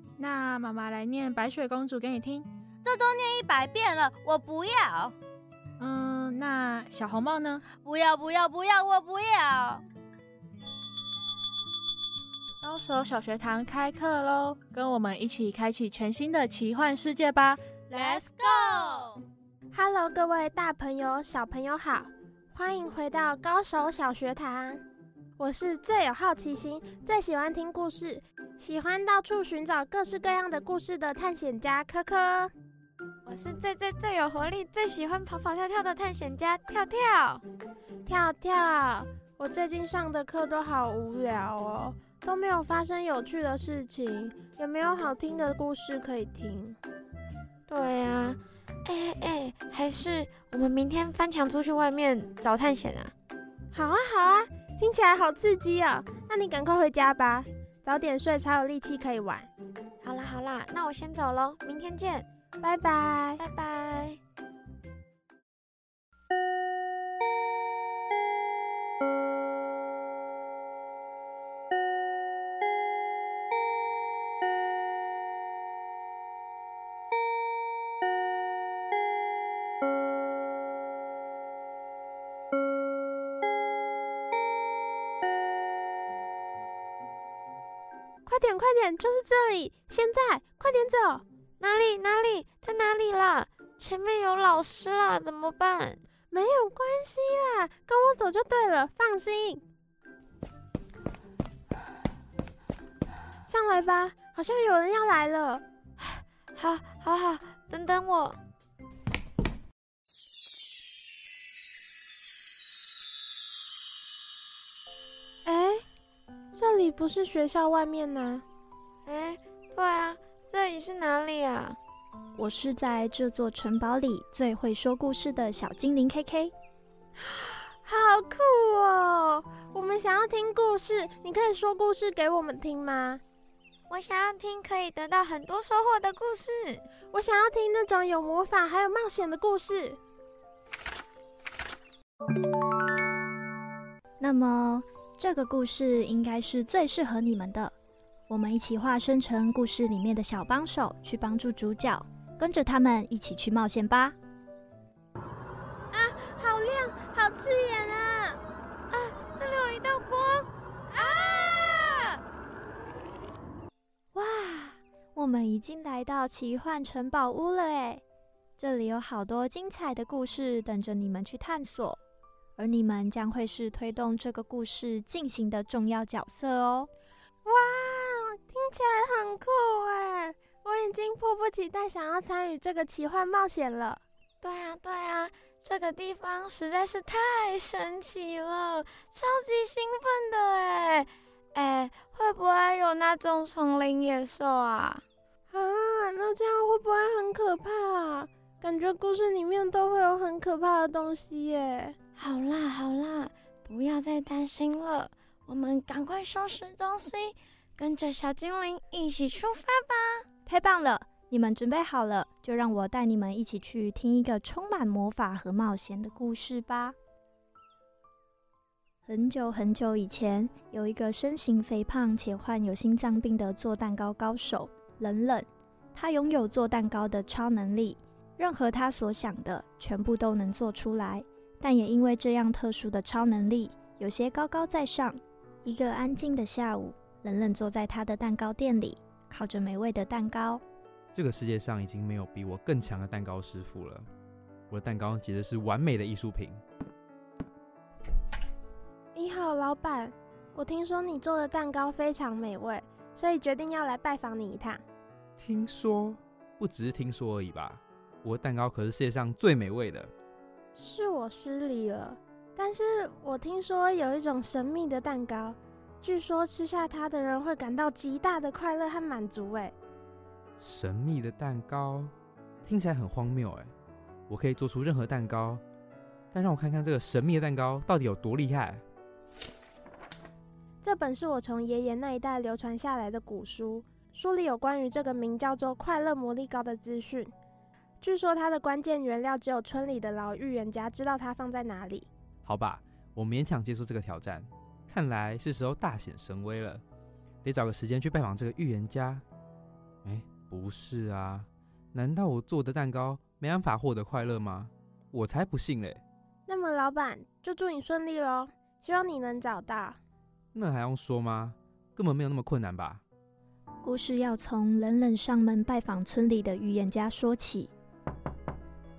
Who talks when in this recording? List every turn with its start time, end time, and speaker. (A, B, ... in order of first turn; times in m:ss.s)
0:00.2-0:02.5 A
0:02.8-0:05.1 B
0:05.8-0:07.6 A
0:07.6-0:09.8 B
0:12.6-0:18.2 A
0:17.9-0:19.1 B
0:19.7-0:24.8 C
0:25.4-0:32.5 C
0:33.2-0:37.4 D
0:38.0-0:46.8 C
0:47.7-0:53.1 D
0:53.7-0:59.5 C
1:00.0-1:02.3 D
1:02.6-1:03.4 C
1:03.4-1:04.2 D
1:28.2-1:31.2 C
1:31.6-1:36.0 D
1:36.3-1:39.6 C
1:43.5-1:45.6 C
1:46.0-1:48.4 D
1:55.4-1:55.8 C
1:56.6-1:58.4 C
1:59.0-2:01.8 D
2:02.4-2:06.5 E
2:07.2-2:13.2 C
2:13.9-2:16.8 D
2:17.1-2:20.0 C
2:24.2-2:27.7 E
2:28.3-2:34.2 E
2:35.9-2:38.4 C
2:38.9-2:42.1 D
2:44.1-2:48.0 E
2:48.6-2:52.0 E
2:52.6-2:56.9 E
2:57.4-3:04.0 C
3:04.4-3:15.0 D
3:15.5-3:22.0 C
3:22.2-3:30.2 D
3:30.4-3:37.0 E
3:39.0-4:00.6 E
4:01.1-4:04.1 F
4:04.7-4:06.6 F
4:09.1-4:14.8 C
4:15.4-4:20.1 F
4:20.7-4:29.7 C
4:30.6-4:33.7 F
4:34.3-4:35.6 F
4:36.3-4:38.8 F
4:40.8-4:47.3 C
4:48.0-4:52.1 C
4:52.4-4:56.8 F
4:57.4-4:59.2 F
5:00.0-5:06.0 F
5:06.5-5:10.0 C
5:10.5-5:13.0 F
5:13.8-5:17.7 E